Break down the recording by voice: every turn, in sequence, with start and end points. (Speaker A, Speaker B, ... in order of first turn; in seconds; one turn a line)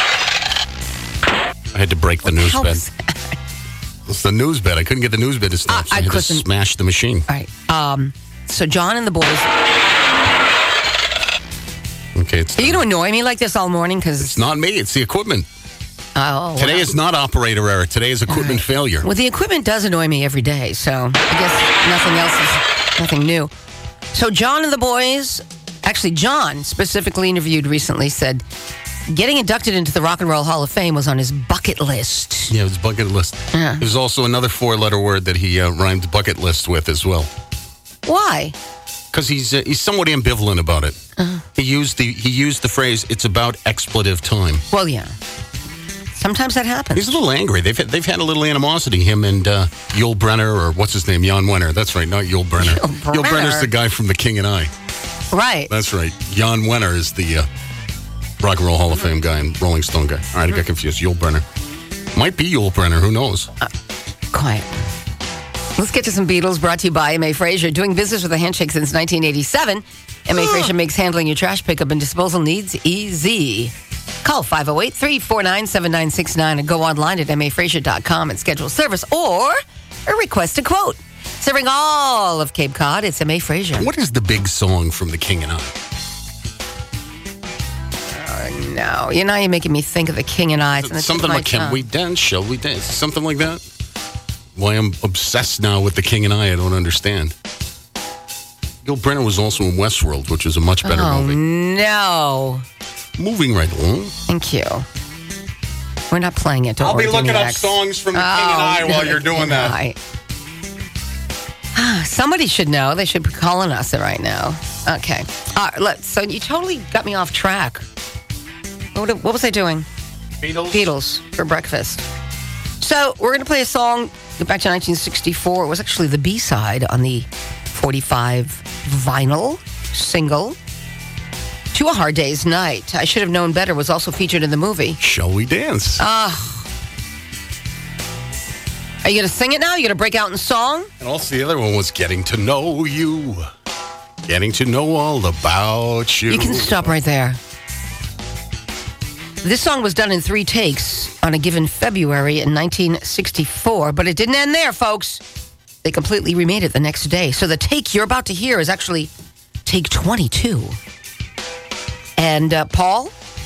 Speaker A: 1.7-2.8
Speaker B: 2.2-3.4
Speaker A: 4.1-7.3
Speaker B: 5.7-6.5
Speaker B: 7.3-9.5
Speaker A: 12.2-12.9
Speaker B: 12.6-14.4
Speaker A: 14.2-15.5
Speaker B: 16.2-16.9
Speaker A: 16.6-19.1
Speaker B: 18.3-23.5
Speaker B: 24.1-28.4
Speaker B: 29.1-32.5
Speaker A: 32.5-37.3
Speaker B: 33.5-33.8
Speaker B: 38.1-38.5
Speaker A: 39.1-41.0
Speaker B: 41.2-41.4
Speaker A: 41.6-44.6
Speaker B: 44.7-45.1
Speaker B: 46.1-47.2
Speaker A: 47.0-54.7
Speaker B: 52.6-53.7
Speaker B: 55.3-55.7
Speaker A: 55.7-57.5
Speaker A: 58.4-61.4
Speaker A: 62.1-63.5
Speaker B: 64.3-64.8
Speaker B: 65.8-83.9
Speaker A: 70.3-70.7
Speaker A: 83.8-85.7
Speaker B: 88.1-91.9
Speaker A: 90.8-93.6
Speaker A: 94.6-97.3
Speaker A: 98.8-101.4
Speaker B: 100.8-102.6
Speaker A: 103.2-104.1
Speaker B: 104.3-104.9
Speaker B: 106.1-110.0
Speaker A: 106.8-109.8
Speaker B: 111.8-117.8
Speaker B: 119.0-119.9
Speaker A: 120.4-120.9
Speaker B: 120.7-122.0
Speaker B: 122.8-130.6
Speaker B: 131.7-135.0
Speaker A: 135.0-136.0
Speaker B: 136.0-136.7
Speaker B: 139.0-140.9
Speaker A: 141.0-143.5
Speaker A: 144.3-146.9
Speaker B: 146.3-147.4
Speaker B: 149.4-155.2
Speaker B: 155.8-159.1
Speaker B: 159.7-160.8
Speaker B: 162.2-163.1